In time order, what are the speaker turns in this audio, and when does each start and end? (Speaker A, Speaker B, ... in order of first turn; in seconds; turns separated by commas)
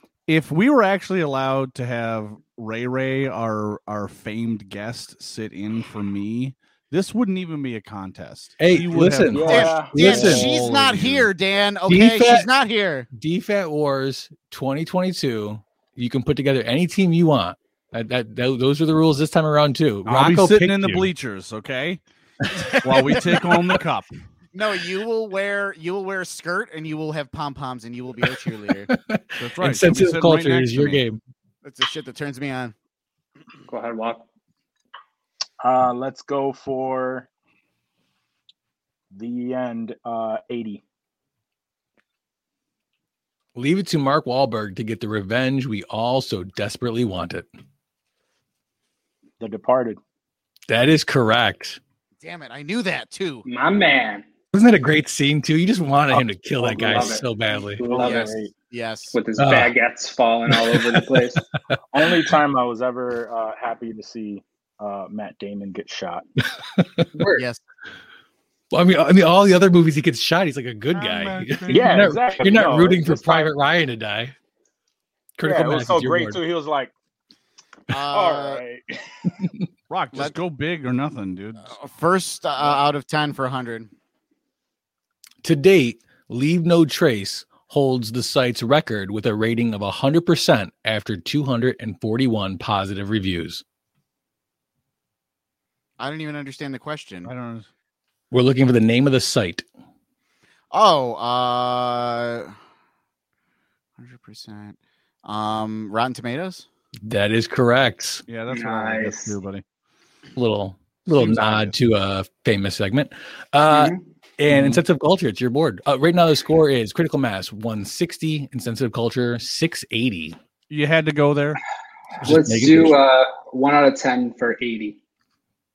Speaker A: 0.3-11.3, Speaker B: 8.6-10.9, Speaker C: 9.3-10.5, Speaker D: 9.5-13.1, Speaker B: 11.9-12.5, Speaker B: 13.1-21.1, Speaker A: 20.1-22.0, Speaker B: 22.5-23.3, Speaker A: 22.7-24.1, Speaker D: 24.5-28.9, Speaker B: 28.9-31.2, Speaker A: 29.4-31.0, Speaker D: 31.6-32.8, Speaker E: 33.7-34.2, Speaker C: 35.6-37.3, Speaker C: 39.1-40.8, Speaker B: 43.6-47.5, Speaker C: 49.4-50.0, Speaker B: 50.7-51.8, Speaker D: 52.2-53.5, Speaker E: 53.5-54.2, Speaker B: 54.5-57.8, Speaker E: 56.6-57.2, Speaker C: 56.8-58.5, Speaker E: 57.8-58.4, Speaker D: 58.0-59.2, Speaker E: 59.1-61.4, Speaker B: 59.4-59.8, Speaker B: 60.5-61.4, Speaker C: 61.9-66.2, Speaker B: 66.7-67.4, Speaker D: 67.3-67.6, Speaker B: 68.7-74.3, Speaker A: 70.9-72.1, Speaker C: 71.7-73.5, Speaker B: 75.4-76.4, Speaker C: 75.4-76.9, Speaker D: 77.9-78.6, Speaker C: 78.1-78.9, Speaker A: 79.9-81.7, Speaker D: 81.7-83.9, Speaker B: 85.4-93.6, Speaker D: 96.0-97.3, Speaker A: 97.2-97.7, Speaker B: 98.3-99.7, Speaker D: 100.7-102.5, Speaker D: 104.0-106.7, Speaker B: 107.0-108.2, Speaker A: 108.3-109.6, Speaker E: 108.5-109.4, Speaker B: 110.3-120.4, Speaker A: 111.1-111.8, Speaker E: 113.7-114.0, Speaker A: 114.5-114.8, Speaker A: 120.7-121.6, Speaker B: 122.2-123.0, Speaker E: 122.2-125.0